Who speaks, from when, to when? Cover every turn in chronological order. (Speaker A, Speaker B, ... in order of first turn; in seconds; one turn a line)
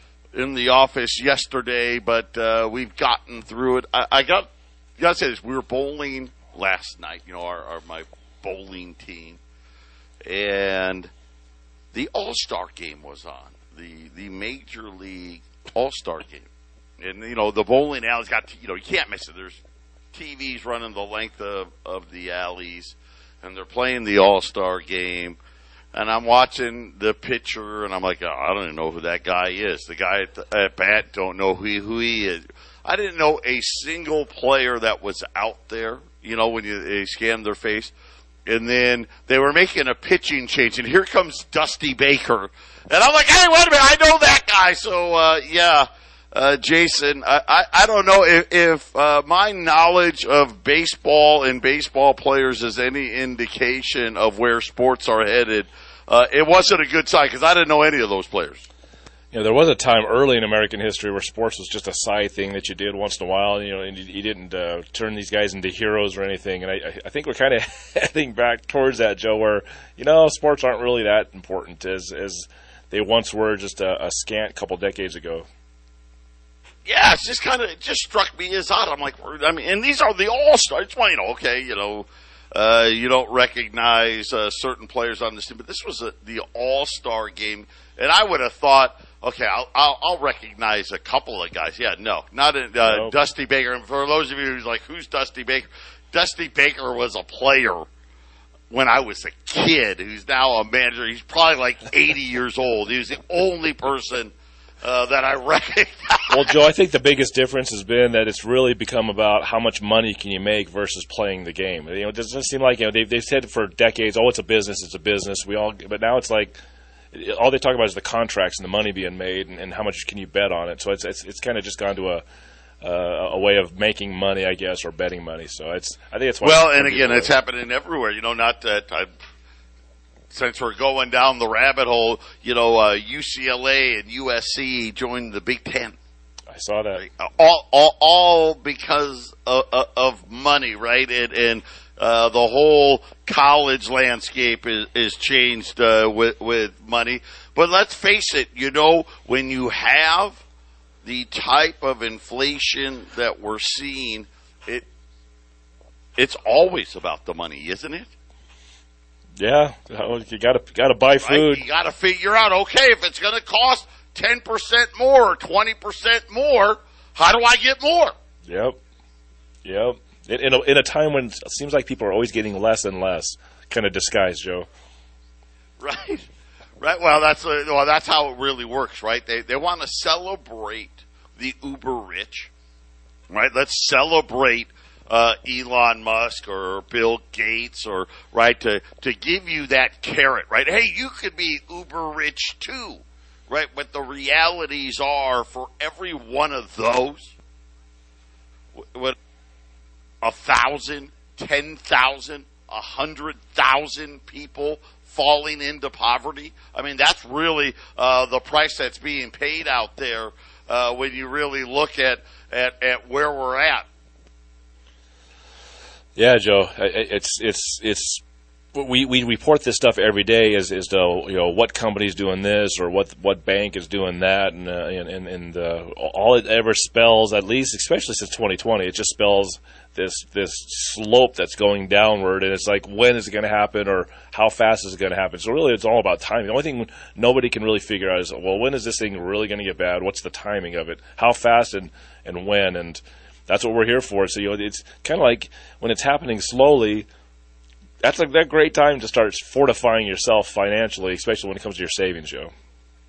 Speaker A: 0.3-4.5
Speaker A: 5.0-9.4
Speaker A: 10.3-11.1
Speaker A: 11.9-19.6
Speaker A: 20.1-25.4
Speaker A: 25.9-37.9
Speaker A: 38.5-58.6
Speaker B: 59.3-75.5
Speaker A: 76.8-97.9
Speaker B: 92.8-93.1
Speaker A: 98.7-106.5
Speaker B: 106.3-116.6
Speaker B: 117.1-122.2
Speaker B: 122.8-127.3
Speaker A: 126.4-129.1
Speaker A: 130.3-136.0
Speaker B: 136.5-137.0
Speaker A: 137.0-150.4
Speaker A: 151.0-154.9
Speaker A: 156.2-158.1
Speaker B: 159.4-161.6
Speaker A: 161.2-168.1
Speaker B: 168.5-168.8
Speaker B: 169.6-174.7
Speaker A: 175.8-176.3
Speaker A: 176.8-182.5
Speaker A: 183.3-197.3
Speaker A: 198.8-199.2
Speaker A: 200.2-213.9
Speaker B: 216.2-218.2
Speaker B: 218.7-247.1
Speaker B: 248.0-252.5